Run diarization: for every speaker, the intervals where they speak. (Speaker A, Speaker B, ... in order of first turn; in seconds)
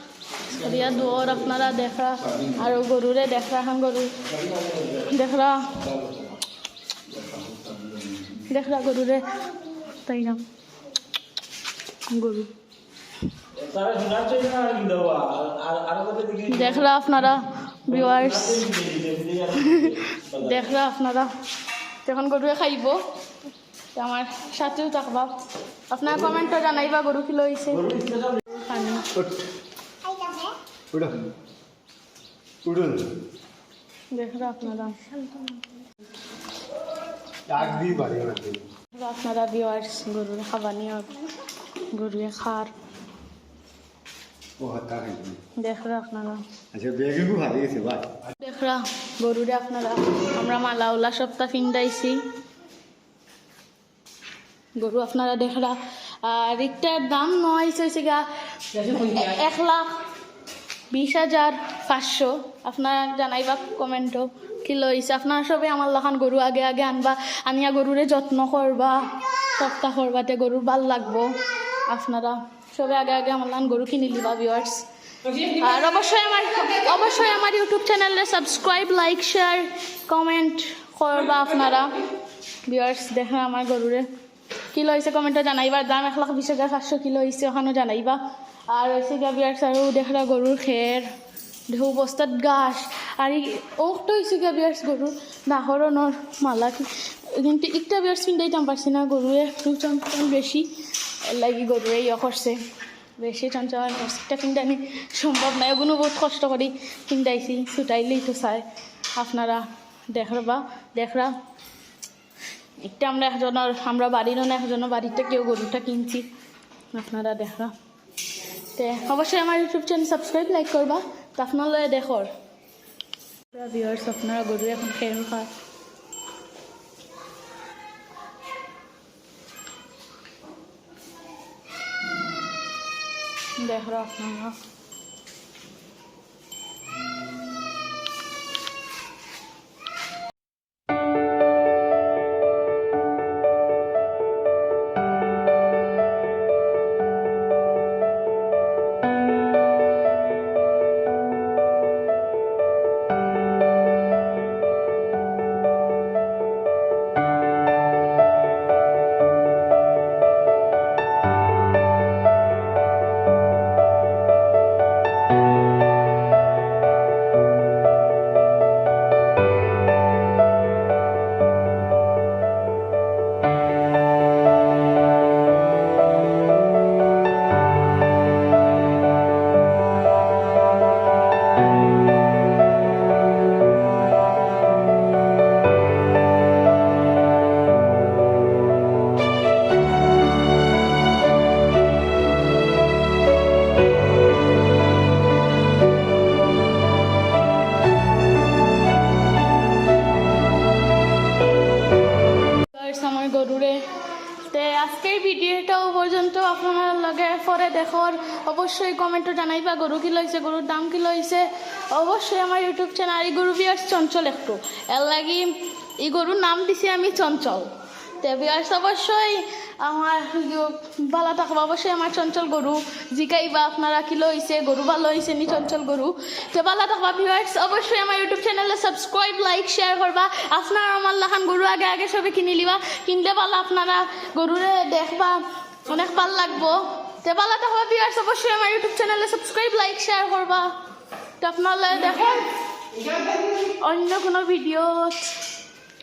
Speaker A: 0.3-4.3, 4.8-6.0, 8.3-10.5, 12.1-12.5, 16.4-18.9, 19.5-21.3, 22.0-23.1, 23.9-25.4, 25.9-29.1, 34.1-35.5, 38.9-42.8, 45.5-46.5, 48.3-52.3, 54.8-60.0, 60.9-82.0, 82.6-84.1, 84.7-91.1, 91.7-102.6, 103.2-111.4, 112.8-116.3, 116.9-117.7, 118.7-122.3, 123.5-125.5, 133.6-134.6, 202.7-240.8, 241.4-242.5, 243.3-245.5
Speaker B: 7.3-8.1, 13.5-16.6, 18.2-20.2, 27.9-28.3
Speaker C: 29.1-29.5, 30.9-31.3, 32.6-33.2, 37.5-38.7, 44.6-45.4, 46.7-48.2